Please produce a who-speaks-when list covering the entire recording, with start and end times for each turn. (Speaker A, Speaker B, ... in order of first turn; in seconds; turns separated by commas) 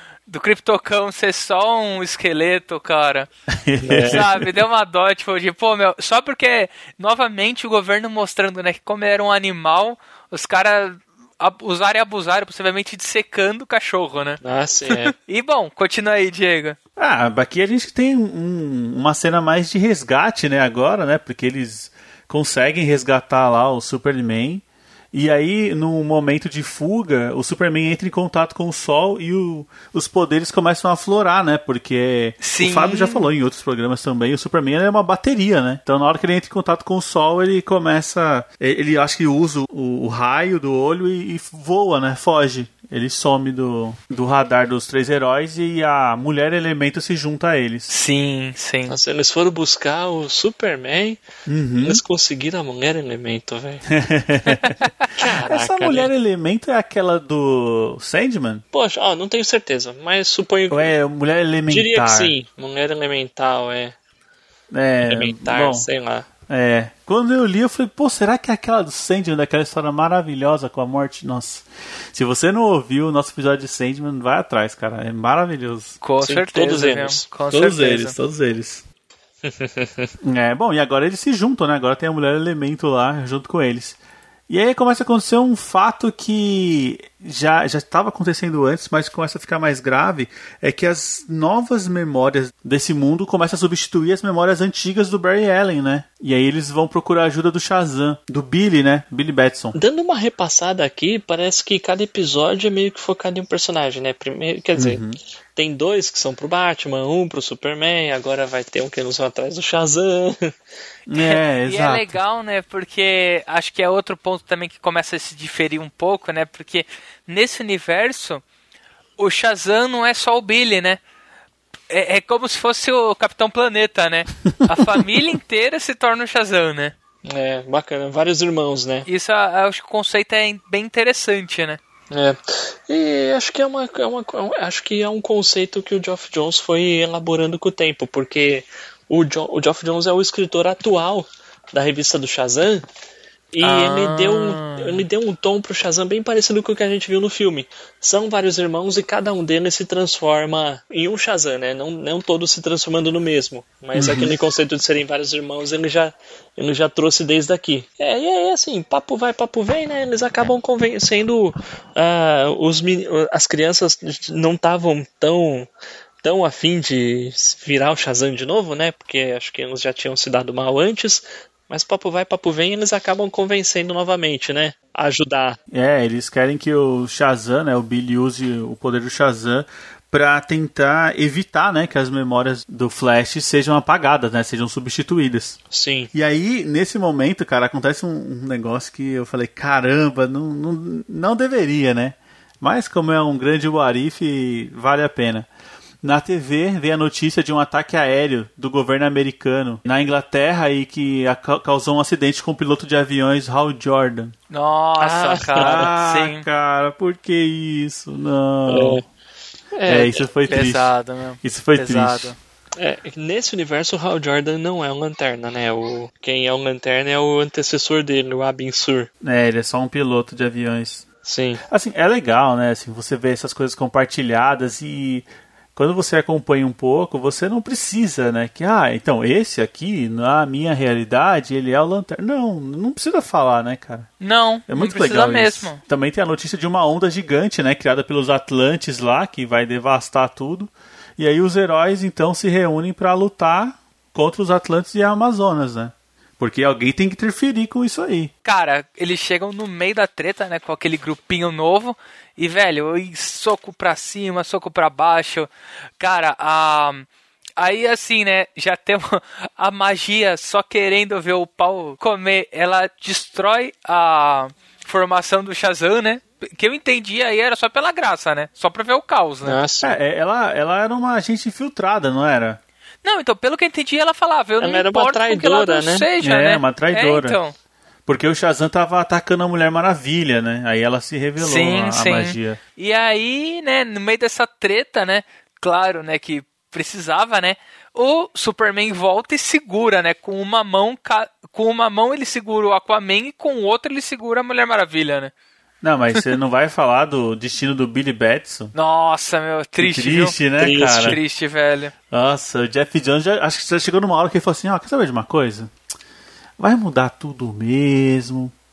Speaker A: 0.3-3.3, Speaker B: 3.6-4.5, Speaker C: 3.8-4.2, Speaker A: 4.1-16.8, Speaker C: 14.4-15.1, Speaker B: 17.0-47.9, Speaker A: 32.4-33.3, Speaker A: 47.9-49.0, Speaker C: 48.9-51.2, Speaker B: 51.5-52.0, Speaker C: 51.8-53.9, Speaker B: 53.9-54.8, Speaker A: 54.6-54.9, Speaker C: 55.2-56.1, Speaker B: 55.4-58.6, Speaker C: 58.7-60.9, Speaker B: 60.7-62.4, Speaker C: 61.7-64.0, Speaker B: 64.7-65.9, Speaker C: 65.0-66.3, Speaker B: 66.5-76.0, Speaker A: 76.0-78.2, Speaker C: 76.2-77.3, Speaker B: 77.5-78.8, Speaker C: 79.4-80.1, Speaker B: 80.2-84.0, Speaker B: 84.5-99.8, Speaker C: 99.7-105.0, Speaker B: 104.8-105.2, Speaker C: 105.6-110.5, Speaker B: 111.1-112.2, Speaker A: 111.2-118.4, Speaker A: 119.2-121.0, Speaker A: 121.9-126.9, Speaker C: 127.2-129.1, Speaker A: 129.1-131.8, Speaker C: 132.1-142.8, Speaker C: 143.5-165.7, Speaker A: 143.6-145.1, Speaker B: 153.9-154.3, Speaker C: 166.2-175.6, Speaker B: 175.7-185.6, Speaker C: 185.7-186.1, Speaker B: 186.1-195.5, Speaker B: 196.0-204.3, Speaker A: 204.5-206.4, Speaker C: 205.0-205.9, Speaker B: 205.6-209.0, Speaker C: 208.7-209.0, Speaker C: 209.7-210.2, Speaker B: 209.9-210.9, Speaker A: 210.5-212.4, Speaker B: 211.4-212.3, Speaker C: 212.8-219.1, Speaker B: 219.2-221.1, Speaker C: 221.2-221.6, Speaker B: 221.7-234.1, Speaker A: 234.2-235.8, Speaker B: 234.7-248.3, Speaker A: 248.4-257.1, Speaker A: 257.6-269.6, Speaker C: 269.4-270.0, Speaker B: 269.8-272.6, Speaker A: 273.0-277.5, Speaker C: 274.6-276.1, Speaker B: 276.2-277.4, Speaker B: 278.1-282.6, Speaker A: 281.4-295.3, Speaker B: 295.8-298.7, Speaker A: 298.7-301.9, Speaker B: 299.8-301.2, Speaker C: 300.6-301.2, Speaker B: 302.1-305.7, Speaker B: 306.6-308.5